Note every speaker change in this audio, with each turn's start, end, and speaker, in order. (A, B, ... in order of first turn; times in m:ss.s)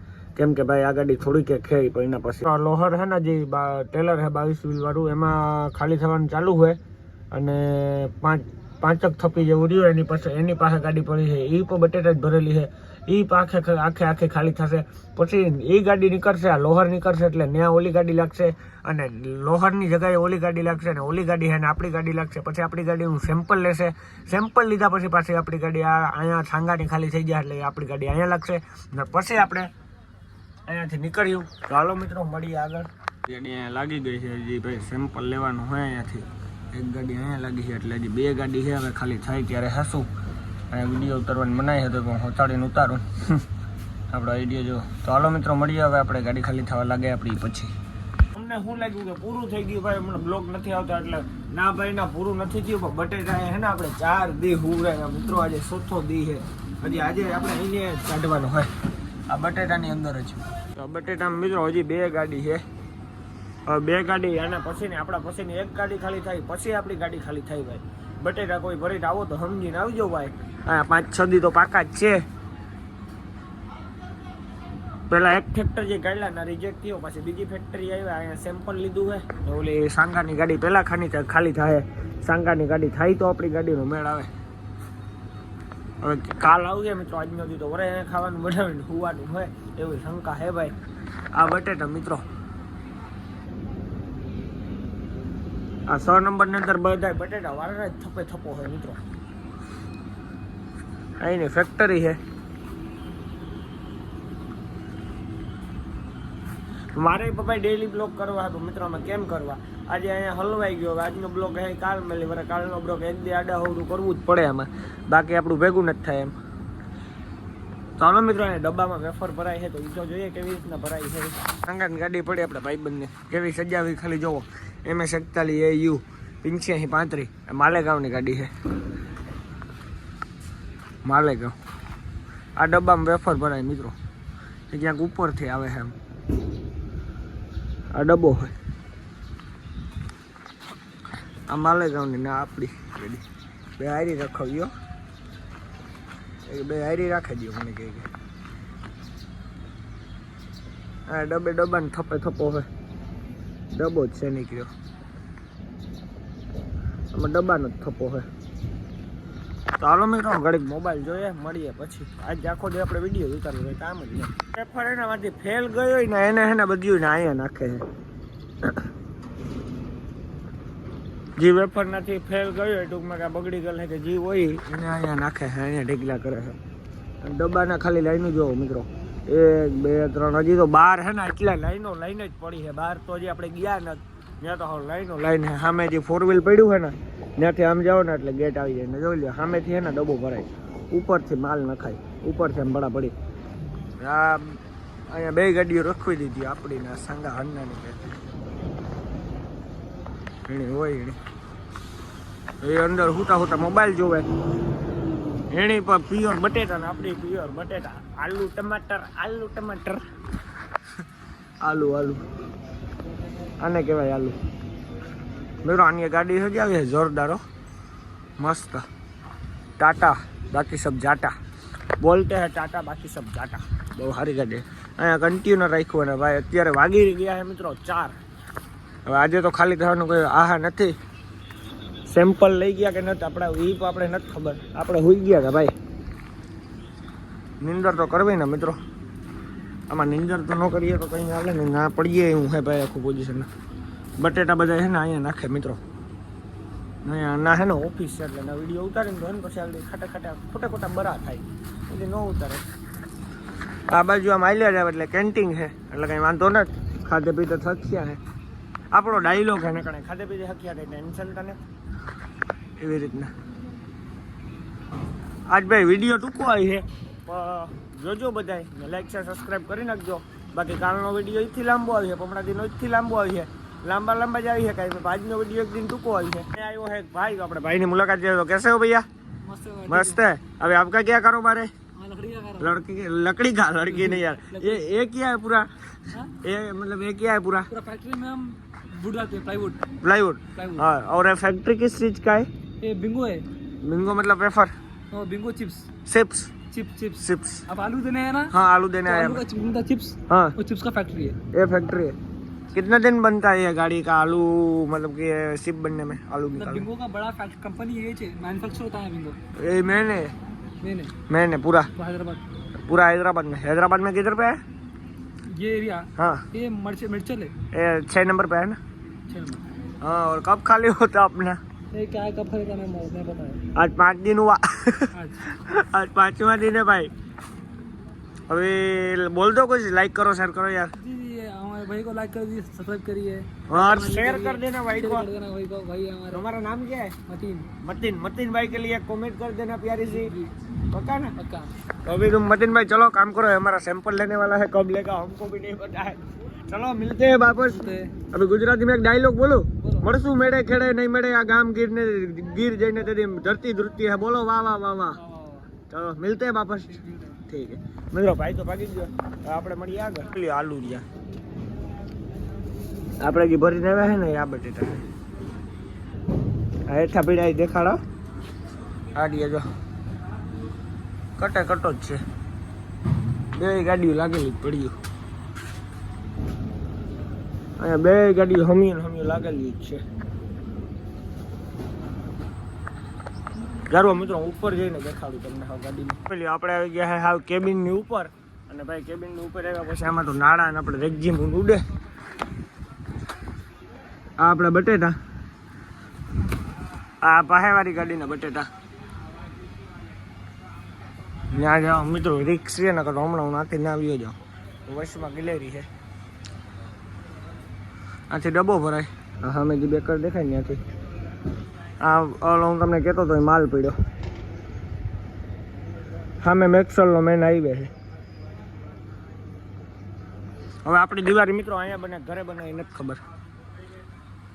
0:00.4-0:06.8 A
0:07.3-0:29.7 A
0:30.7-0:40.1 A
0:40.7-0:43.4 A
0:44.1-0:47.7 A
0:48.3-0:58.7 A
0:59.3-1:02.6 A
1:03.7-1:12.2 A
1:15.1-1:24.3 A
1:26.0-1:30.8 A
1:31.3-1:32.2 A
1:35.9-1:39.0 A
1:41.2-1:42.2 A
1:47.0-1:56.4 A
1:58.0-2:08.5 A
2:11.0-2:11.6 A
2:12.6-2:14.0 A
2:14.7-2:16.0 A
2:17.9-2:18.5 A
2:21.5-2:23.2 A
2:23.8-2:24.7 A
2:26.4-2:28.1 A
2:31.1-2:32.7 A
2:33.7-2:34.7 A
2:37.1-2:38.3 A
2:39.8-2:47.8 A
2:51.4-2:56.6 A
2:57.2-3:13.1 A
3:14.0-3:18.2 A
3:20.5-3:21.2 A
3:22.6-3:24.3 A
3:25.5-3:30.0 A
3:31.6-3:32.2 A
3:33.6-3:34.4 A
3:35.6-3:37.4 A
3:38.4-3:38.8 A
3:39.8-3:41.3 A
3:42.0-3:48.2 A
3:49.1-3:51.0 A
3:52.1-3:55.7 A
3:57.6-3:58.8 A
3:59.9-4:03.5 A
4:04.2-4:05.8 A
4:07.0-4:12.6 A
4:13.9-4:18.2 A
4:18.9-4:21.6 A
4:22.8-4:23.3 A
4:25.5-4:39.1 A
4:39.4-4:40.2 B
4:39.9-4:41.7 A
4:42.0-4:42.8 B
4:42.6-4:45.7 A
4:43.9-4:44.9 B
4:46.3-4:47.7 A
4:47.7-4:49.9 B
4:50.0-4:52.5 A
4:50.6-4:50.9 B
4:52.8-4:53.4 B
4:53.8-4:54.7 A
4:55.1-4:55.9 B
4:56.1-4:56.5 A
4:56.7-4:58.5 B
4:57.2-4:57.6 A
4:58.5-4:59.4 A
4:59.0-5:01.4 B
5:00.3-5:00.6 A
5:01.5-5:02.2 A
5:02.7-5:06.9 A
5:06.6-5:09.4 B
5:09.6-5:10.3 A
5:10.8-5:11.2 B
5:11.3-5:11.9 A
5:12.0-5:12.4 B
5:12.9-5:14.6 A
5:15.5-5:17.6 B
5:16.2-5:16.5 A
5:17.7-5:18.8 A
5:19.3-5:19.6 B
5:20.0-5:21.6 A
5:21.9-5:23.6 B
5:23.8-5:27.1 A
5:25.1-5:25.5 B
5:28.5-5:31.0 A
5:31.0-5:36.4 B
5:33.7-5:35.3 A
5:36.3-5:37.2 A
5:37.3-5:37.7 B
5:37.8-5:40.3 A
5:40.1-5:40.5 B
5:40.9-5:41.4 A
5:41.4-5:41.7 B
5:42.0-5:55.2 A
5:47.6-5:48.2 B
5:49.8-5:50.1 B
5:55.2-5:55.7 B
5:55.9-6:01.0 A
5:56.9-5:57.4 B
6:03.2-6:05.1 A
6:06.9-6:08.0 A
6:09.2-6:09.6 A
6:11.4-6:12.2 A
6:13.5-6:15.0 A
6:17.8-6:20.0 A
6:23.9-6:31.8 A
6:34.4-6:35.2 A
6:37.2-6:38.7 A
6:41.5-6:45.9 A
6:48.3-6:50.8 A
6:52.0-6:54.0 A
6:56.4-6:57.9 A
7:00.8-7:03.2 A